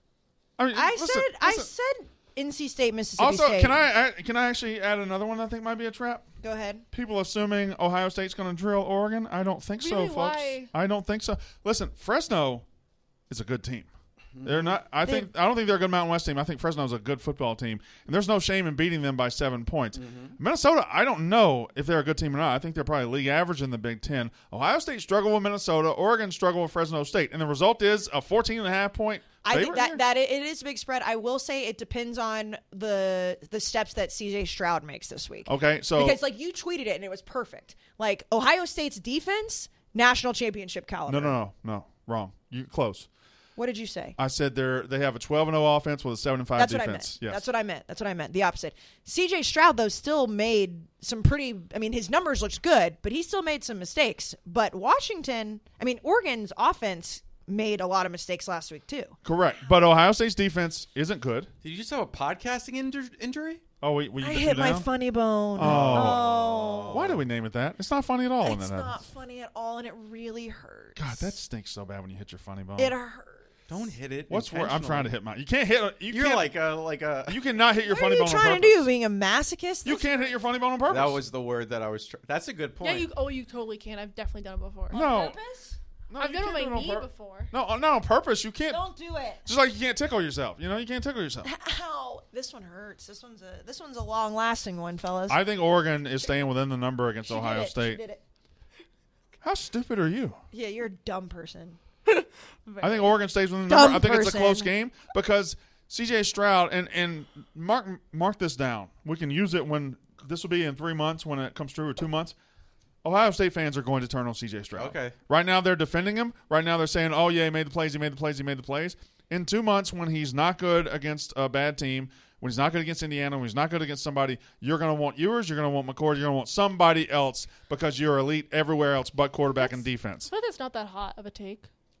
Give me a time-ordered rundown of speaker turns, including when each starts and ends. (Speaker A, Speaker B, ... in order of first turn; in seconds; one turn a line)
Speaker A: 0.6-1.7
Speaker B: 0.7-3.8
Speaker A: 3.2-6.2
Speaker B: 6.4-6.8
Speaker A: 6.9-12.6
Speaker C: 9.8-10.7
Speaker A: 13.3-13.9
Speaker D: 14.3-14.8
Speaker A: 14.4-30.0
Speaker D: 19.9-20.4
Speaker B: 29.4-41.4
Speaker A: 35.5-36.2
Speaker A: 41.1-43.1
Speaker B: 43.6-44.2
Speaker A: 44.2-47.4
Speaker B: 46.5-59.2
Speaker A: 59.2-61.5
Speaker D: 61.6-63.6
Speaker A: 63.8-64.9
Speaker B: 64.2-67.0
Speaker A: 65.5-66.2
Speaker D: 65.6-67.2
Speaker A: 66.9-69.0
Speaker B: 68.4-71.3
Speaker A: 71.0-72.9
Speaker B: 72.8-73.5
Speaker D: 73.7-75.1
Speaker A: 74.3-76.6
Speaker D: 76.1-77.4
Speaker A: 77.3-78.9
Speaker B: 77.8-80.3
Speaker A: 79.8-81.2
Speaker D: 80.9-83.1
Speaker C: 82.8-85.0
Speaker A: 84.9-85.4
Speaker B: 84.9-85.8
Speaker A: 86.1-88.8
Speaker C: 86.2-87.5
Speaker B: 88.7-89.4
Speaker A: 89.4-91.5
Speaker B: 91.4-95.4
Speaker A: 95.3-98.0
Speaker B: 97.3-98.2
Speaker A: 99.4-100.4
Speaker B: 100.5-101.8
Speaker A: 102.8-112.3
Speaker B: 103.7-104.7
Speaker A: 113.0-130.3
Speaker D: 114.8-115.1
Speaker C: 130.3-131.7